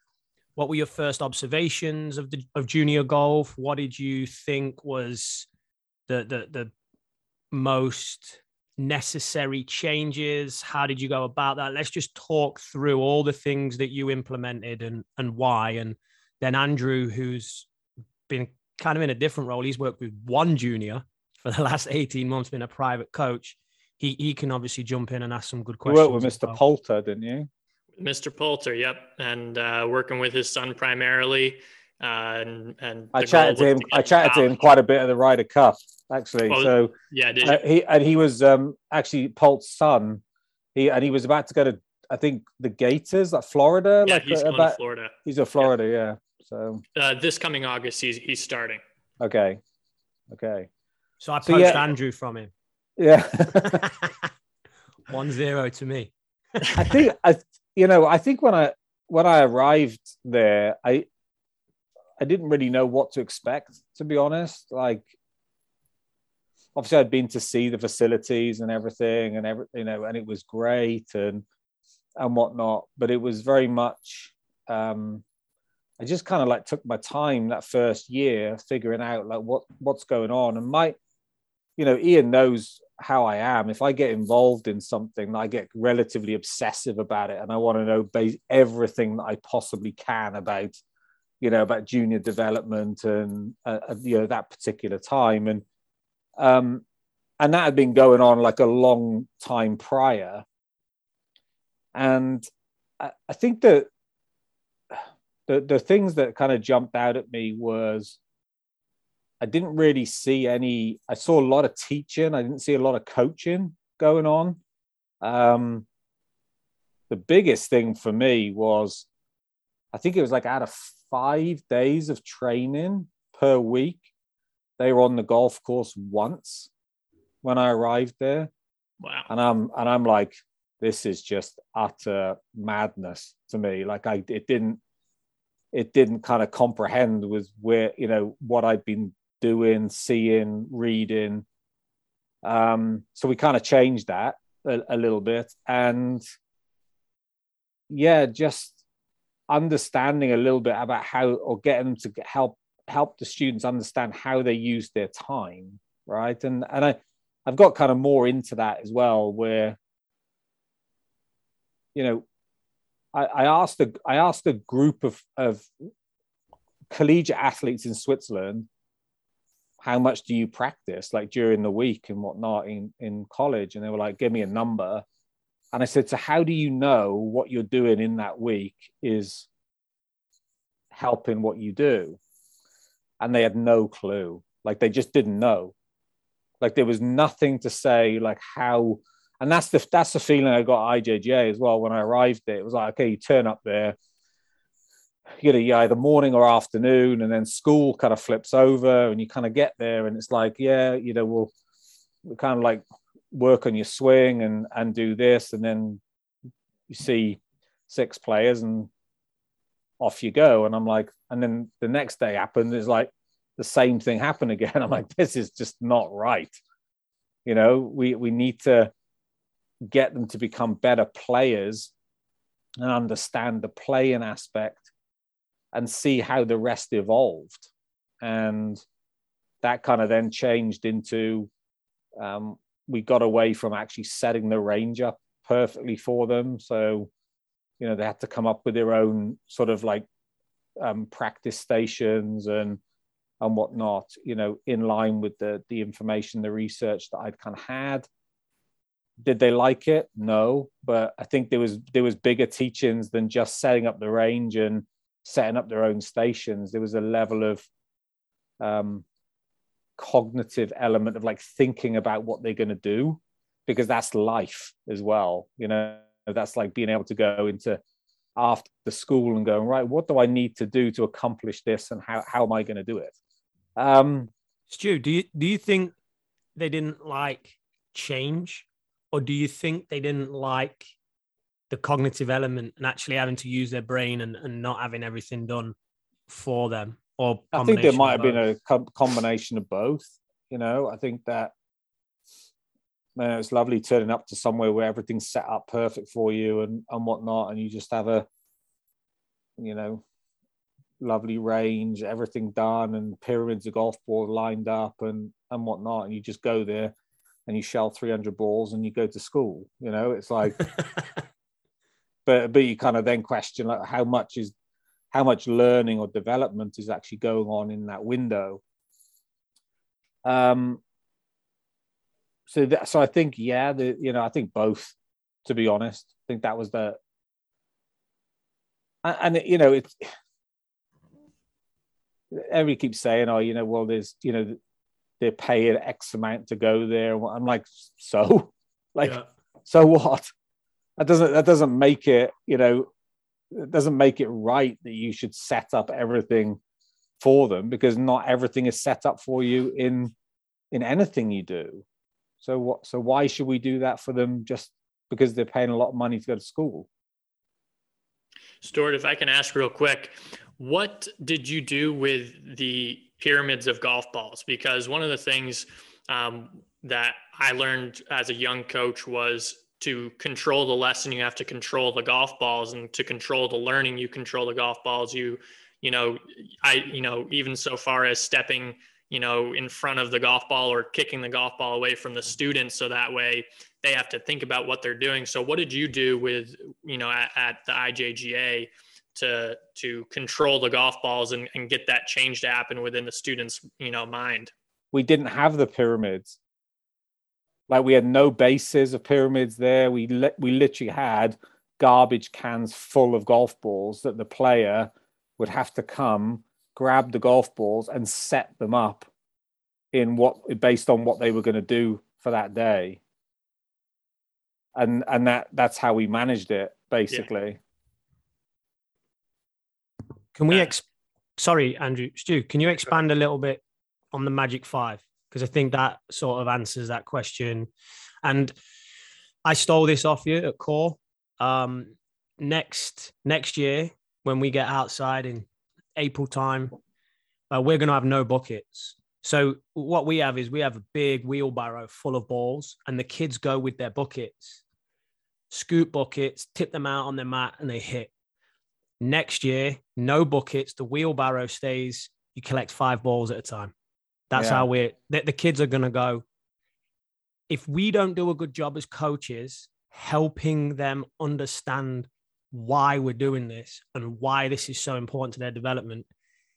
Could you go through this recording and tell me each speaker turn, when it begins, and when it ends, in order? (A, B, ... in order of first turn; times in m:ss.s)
0:00.6-0:05.5 A
0:06.1-0:06.7 A
0:07.5-0:17.7 A
0:18.3-0:26.6 A
0:25.8-0:27.5 B
0:28.0-0:34.6 C
0:33.2-0:40.2 B
0:36.5-0:37.6 C
0:40.8-0:46.8 B
0:44.1-0:45.7 C
0:47.0-0:48.8 C
0:49.2-0:49.6 B
0:50.3-0:50.7 B
0:51.2-0:52.5 A
0:51.4-0:51.9 B
0:53.0-0:53.8 B
0:53.6-0:54.3 A
0:55.1-0:56.9 A
0:56.7-1:01.1 B
1:02.2-1:05.1 B
1:06.8-1:11.4 B
1:12.2-1:15.2 B
1:16.0-1:21.0 B
1:21.8-1:30.8 B
1:31.4-1:35.6 B
1:36.4-1:36.8 B
1:37.4-1:40.4 B
1:42.0-1:42.5 B
1:43.0-1:43.9 B
1:44.9-1:48.2 B
1:49.4-1:54.6 B
1:55.2-1:55.9 B
1:57.1-1:59.1 B
1:59.9-2:04.1 B
2:04.8-2:06.7 B
2:07.4-2:08.5 B
2:09.0-2:09.3 C
2:09.3-2:14.8 B
2:15.7-2:21.4 B
2:22.4-2:26.2 B
2:27.9-2:28.8 B
2:29.5-2:39.8 B
2:42.0-2:42.2 B
2:43.1-2:45.7 B
2:46.9-2:48.7 B
2:49.8-2:55.0 B
2:55.7-2:59.5 B
3:00.9-3:02.2 B
3:03.2-3:05.7 B
3:06.6-3:14.0 B
3:15.4-3:21.5 B
3:22.3-3:26.0 B
3:26.9-3:28.9 B
3:30.0-3:36.6 B
3:37.5-3:38.9 B
3:39.9-3:41.9 B
3:42.8-3:44.9 B
3:45.7-3:47.7 B
3:48.2-3:48.8 B
3:49.6-3:51.5 B
3:52.2-3:57.1 B
3:57.8-4:00.0 B
4:00.8-4:02.8 B
4:03.4-4:08.1 B
4:09.2-4:17.7 B
4:18.6-4:19.0 B
4:20.0-4:27.8 B
4:28.4-4:33.1 B
4:33.8-4:34.3 B
4:34.7-4:35.9 A
4:36.6-4:40.9 A
4:41.7-4:45.7 A
4:46.3-4:48.4 A
4:47.5-4:51.5 B
4:53.2-4:58.3 B
4:59.6-5:00.0 B
5:01.0-5:06.9 B
5:07.5-5:10.7 B
5:12.3-5:14.5 B
5:15.1-5:18.6 B
5:20.2-5:20.8 B
5:22.5-5:27.0 B
5:29.0-5:30.1 B
5:32.3-5:34.6 B
5:35.2-5:40.3 B
5:41.0-5:42.9 B
5:43.5-5:46.6 B
5:47.2-5:50.1 B
5:50.7-5:51.8 B
5:52.4-5:56.9 B
5:58.6-6:34.5 C
6:34.9-6:36.4 B
6:37.7-6:49.1 B
6:49.9-6:53.0 B
6:54.8-6:57.6 B
7:00.4-7:00.8 A
7:01.4-7:07.7 A
7:08.2-7:08.5 A
7:09.4-7:16.8 A
7:17.5-7:24.6 A
7:25.5-7:28.1 A
7:29.0-7:33.7 A
7:34.3-7:36.2 A
7:34.3-7:34.7 B
7:37.5-7:46.1 A